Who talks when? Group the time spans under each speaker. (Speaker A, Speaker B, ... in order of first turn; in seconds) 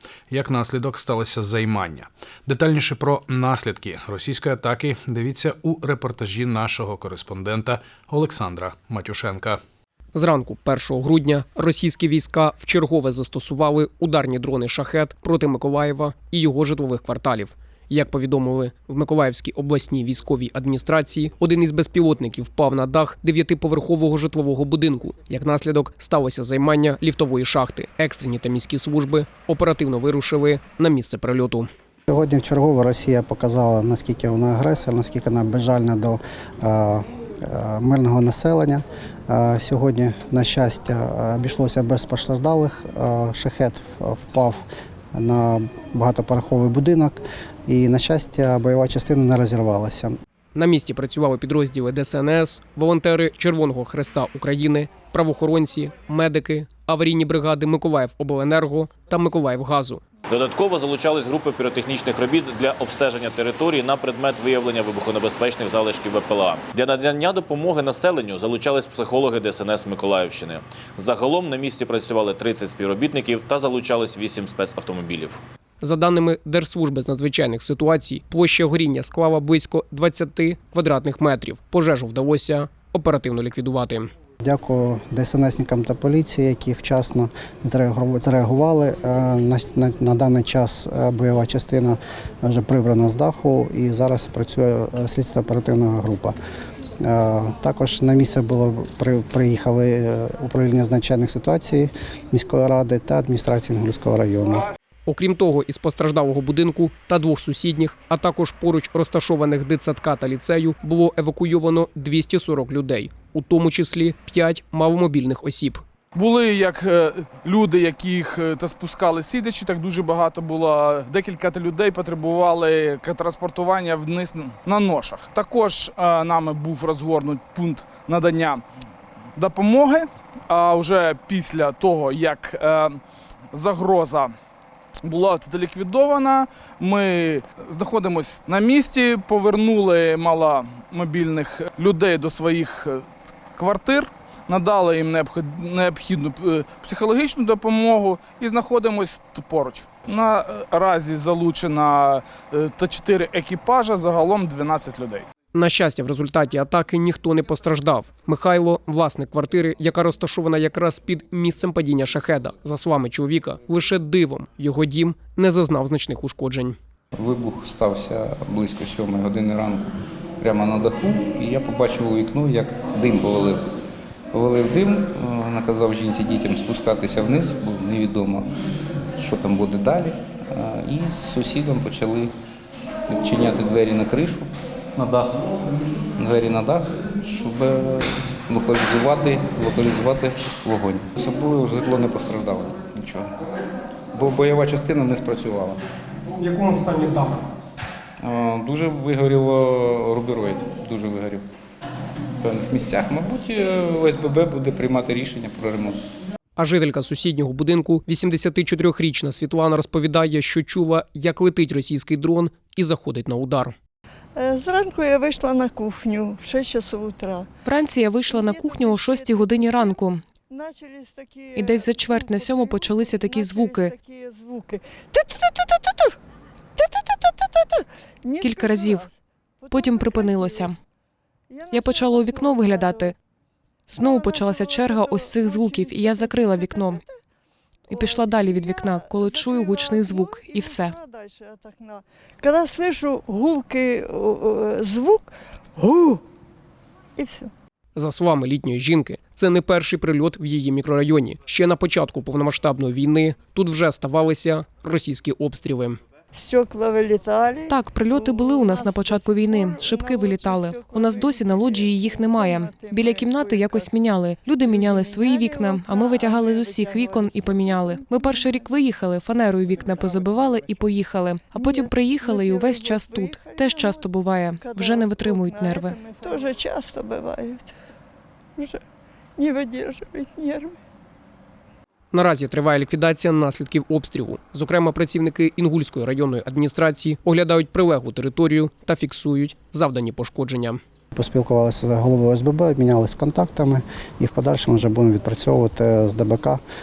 Speaker A: 0.3-9.6
Speaker B: 6.5-7.7, 217.6-220.2, 221.5-223.9, 228.4-229.1, 229.7-230.8, 231.7-233.1, 233.9-237.0, 237.9-240.9, 257.7-276.0
Speaker C: 10.1-31.7, 50.5-60.0, 75.8-84.1, 105.1-115.8, 155.5-166.8, 196.4-197.5, 206.6-213.7, 247.9-256.0, 282.1-290.8
Speaker D: 32.1-50.1, 84.4-96.3, 97.0-104.7, 291.1-296.6
Speaker E: 60.3-75.4
Speaker F: 116.1-128.6, 129.4-133.0, 133.5-134.3, 135.0-143.0, 143.6-155.3
Speaker G: 167.1-173.6, 174.3-178.5, 179.2-182.3, 183.1-185.4, 186.2-193.3, 194.1-195.8, 198.2-201.4, 202.4-206.0
Speaker H: 214.3-217.5, 218.3-226.2, 226.8-230.7, 231.5-233.1, 233.9-237.1, 237.9-246.2, 247.2-247.5, 256.3-264.0, 264.6-268.8, 269.6-270.9, 271.5-277.7, 278.6-278.8, 279.4-280.8